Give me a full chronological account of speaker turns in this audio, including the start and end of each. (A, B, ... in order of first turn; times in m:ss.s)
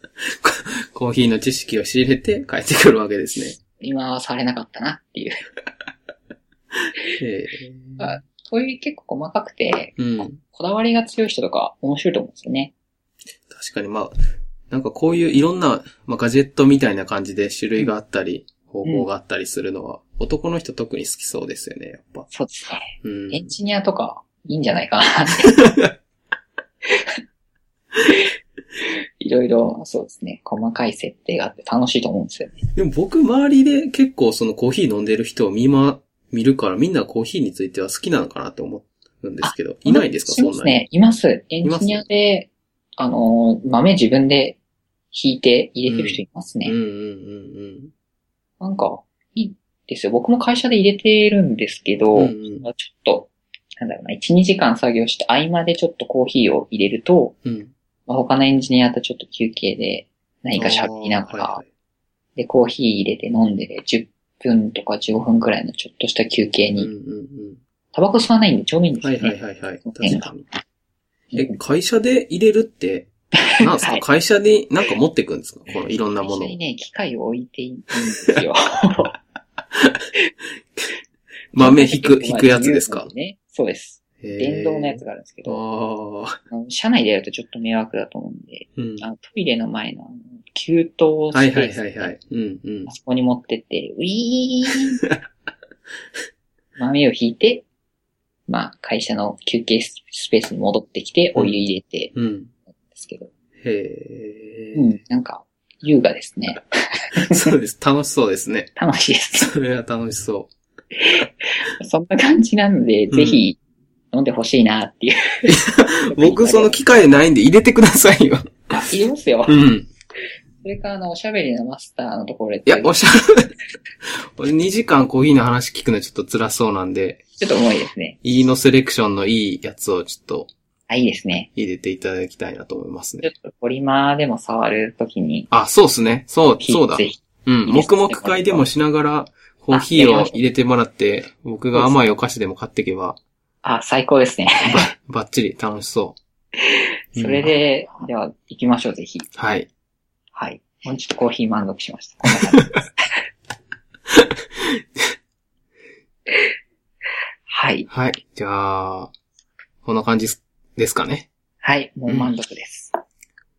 0:00.3-0:03.6 A
0:03.4-0:05.4 B
0:07.2-0:08.2 A
0:08.0-0:12.7 B
0:10.0-0:10.4 A
0:13.5-0:14.2 A
0:14.7-0:22.3 A
0:22.3-0:25.5 B
0:23.0-0:23.6 A
0:28.8-0:32.7 B
0:32.8-0:40.8 A
0:39.4-0:44.6 B
0:41.6-0:42.0 A
0:45.1-0:46.7 B
0:45.9-0:47.9 A
0:48.6-0:57.4 B
0:52.1-0:52.7 A
0:57.4-0:57.7 A
0:58.1-1:01.6 B
1:00.5-1:01.7 A
1:02.4-1:06.9 B
1:06.8-1:07.6 A
1:07.9-1:10.3 B
1:09.0-1:10.5 A
1:11.3-1:11.6 B
1:11.4-1:16.6 A
1:13.6-1:14.0 B
1:16.2-1:19.2 B
1:18.0-1:18.3 A
1:21.5-1:23.1 A
1:21.6-1:25.6 B
1:24.2-1:26.4 A
1:26.5-1:32.1 B
1:28.8-1:29.0 A
1:31.3-1:32.9 A
1:32.9-1:35.0 B
1:34.7-1:35.2 A
1:36.8-1:37.6 B
1:38.5-1:42.1 B
1:41.3-1:41.6 A
1:42.1-1:42.5 A
1:42.8-1:43.3 B
1:43.6-1:44.8 A
1:44.7-1:47.4 B
1:47.2-1:48.7 A
1:48.8-1:49.5 B
1:49.4-1:50.5 A
1:51.0-1:53.6 B
1:53.1-1:53.4 A
1:54.1-1:57.0 B
1:55.4-1:58.8 A
1:58.7-1:59.6 B
1:59.5-1:59.9 A
2:00.6-2:03.0 B
2:02.6-2:03.5 A
2:04.4-2:07.2 A
2:07.4-2:08.2 B
2:08.2-2:10.5 A
2:10.9-2:11.5 B
2:11.5-2:13.3 A
2:13.2-2:15.5 B
2:15.5-2:23.2 A
2:16.6-2:18.7 B
2:19.7-2:20.4 B
2:21.7-2:22.0 B
2:23.6-2:24.9 B
2:24.7-2:26.2 A
2:26.6-2:29.3 B
2:27.2-2:27.5 A
2:29.4-2:29.7 A
2:30.3-2:33.2 B
2:32.3-2:32.8 A
2:37.5-2:37.9 B
2:37.9-2:39.1 A
2:39.8-2:41.3 A
2:41.6-2:42.9 B
2:42.0-2:42.3 A